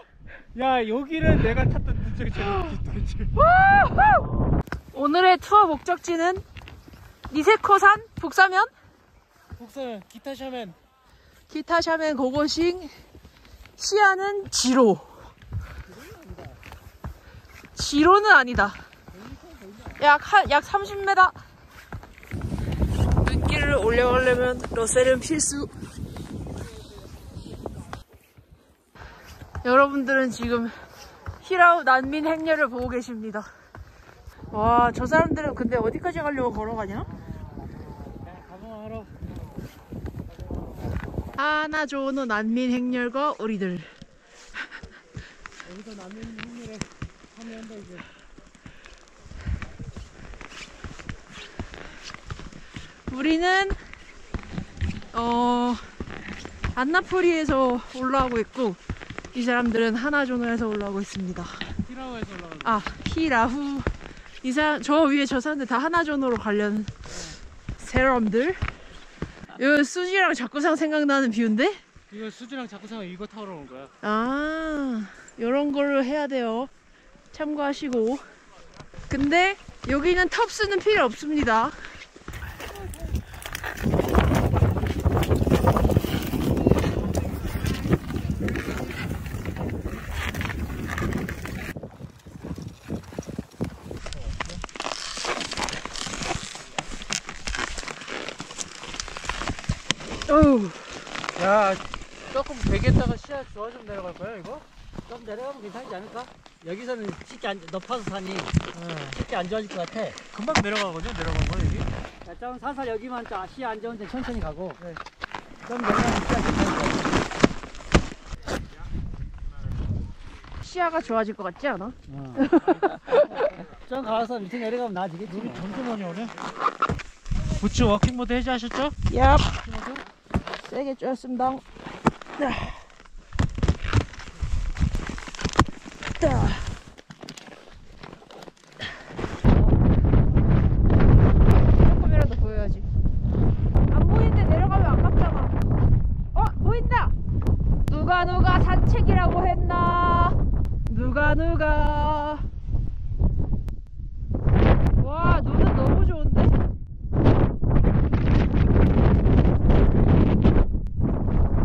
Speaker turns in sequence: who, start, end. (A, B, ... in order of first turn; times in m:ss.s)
0:00.5-0:03.3 A
0:03.3-0:04.3 B
0:04.9-0:06.4 B
0:07.3-0:08.7 B
0:09.6-0:10.8 A
0:11.5-0:12.9 B
0:13.8-0:15.1 B
0:15.9-0:16.6 C
0:17.7-0:18.8 B
0:19.2-0:20.0 C
0:20.0-0:21.3 B
0:23.2-0:25.7 B
0:29.6-0:30.7 B
0:31.4-0:33.5 B
0:34.5-0:37.1 B
0:38.3-0:39.1 A
0:41.4-0:43.9 B
0:45.7-0:48.1 A
0:53.1-0:53.8 B
0:55.1-0:55.8 B
0:56.7-0:58.8 B
0:59.3-1:01.6 B
1:01.8-1:02.8 A
1:02.6-1:03.9 B
1:04.4-1:07.0 B
1:07.8-1:08.6 B
1:09.5-1:11.8 B
1:12.1-1:13.9 A
1:14.0-1:16.7 B
1:17.3-1:18.3 B
1:19.1-1:21.8 B
1:40.3-1:40.9 B
1:41.4-1:44.6 A
1:45.1-1:48.6 C
1:48.7-1:49.2 A
1:49.1-1:50.2 C
1:50.3-1:51.9 A
1:52.2-1:54.8 C
1:55.6-1:57.2 C
2:00.6-2:03.4 B
2:02.1-2:05.8 C
2:02.5-2:03.6 A
2:05.3-2:06.4 A
2:07.6-2:09.0 A
2:09.1-2:09.6 B
2:09.6-2:10.0 A
2:10.4-2:11.6 B
2:12.4-2:12.7 B
2:16.2-2:16.6 B
2:21.6-2:22.8 B
2:23.9-2:25.5 B
2:26.3-2:27.1 B
2:27.9-2:32.4 B
2:35.0-2:36.6 B